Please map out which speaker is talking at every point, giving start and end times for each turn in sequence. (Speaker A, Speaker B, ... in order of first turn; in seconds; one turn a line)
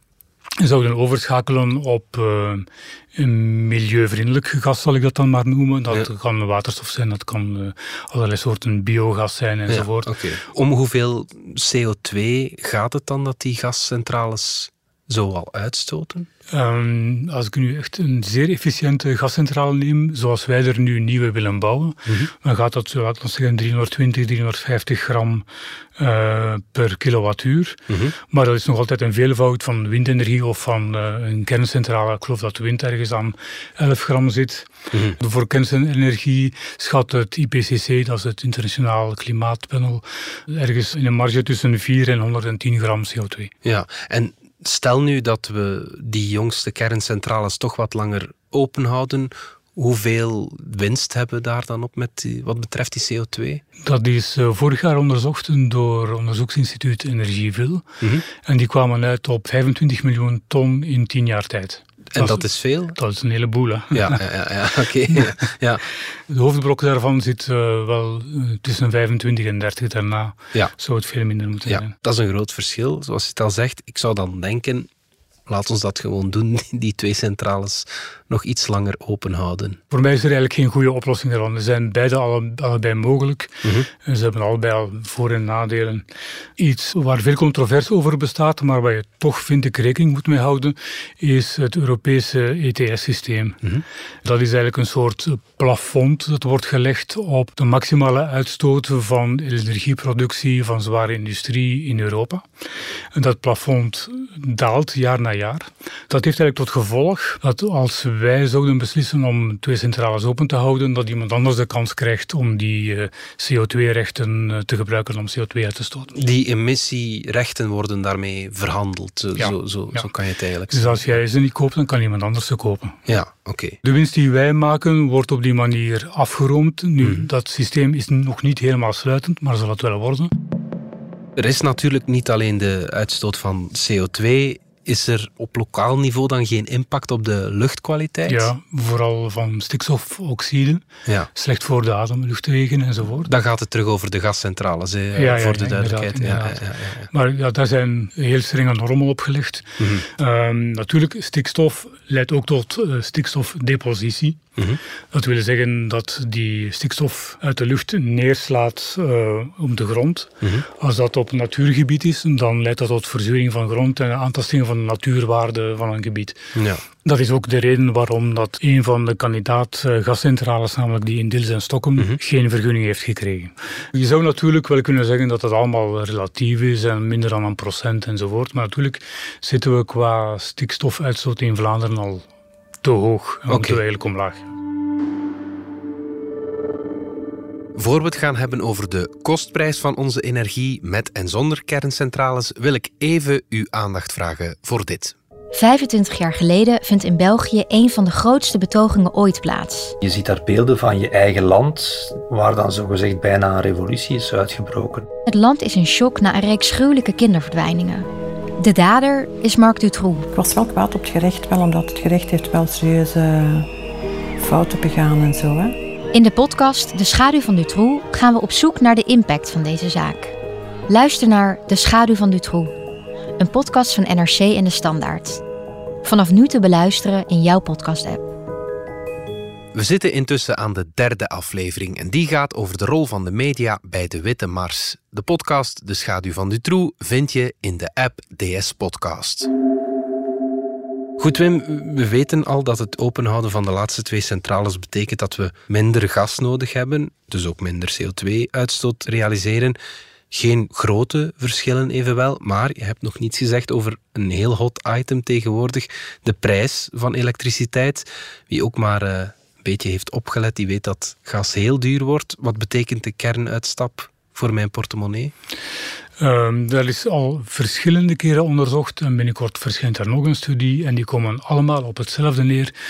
Speaker A: 0.6-10.1
Speaker B: 9.7-16.3
Speaker A: 16.5-25.4
Speaker A: 26.0-43.5
Speaker B: 27.9-28.1
Speaker B: 34.9-35.2
Speaker B: 43.6-53.6
Speaker A: 53.8-57.8
Speaker A: 58.4-64.2
Speaker B: 62.1-63.0
Speaker B: 63.9-65.8
Speaker A: 66.1-71.9
Speaker B: 71.7-74.9
Speaker B: 75.5-79.8
Speaker A: 79.9-86.0
Speaker A: 86.6-93.6
Speaker A: 94.2-102.4
Speaker A: 103.1-116.2
Speaker B: 116.1-121.1
Speaker A: 119.4-120.1
Speaker A: 120.7-123.0
Speaker B: 123.1-123.8
Speaker A: 123.8-130.3
Speaker B: 127.0-127.2
Speaker B: 131.4-138.5
Speaker A: 138.2-140.8
Speaker A: 141.3-143.3
Speaker B: 143.2-147.1
Speaker A: 145.1-154.4
Speaker B: 149.8-150.1
Speaker A: 155.1-166.4
Speaker B: 166.5-166.8
Speaker A: 167.0-182.3
Speaker A: 182.8-184.5
Speaker B: 183.5-183.8
Speaker B: 187.7-195.2
Speaker C: 195.5-199.9
Speaker D: 200.0-205.1
Speaker C: 205.3-208.1
Speaker C: 208.6-210.2
Speaker E: 210.3-213.7
Speaker E: 214.4-215.8
Speaker C: 216.1-220.3
Speaker C: 220.9-222.7
Speaker C: 223.4-225.4
Speaker C: 226.0-228.2
Speaker B: 229.7-239.5
Speaker B: 241.2-249.8
Speaker B: 250.3-265.3
Speaker A: 266.2-272.7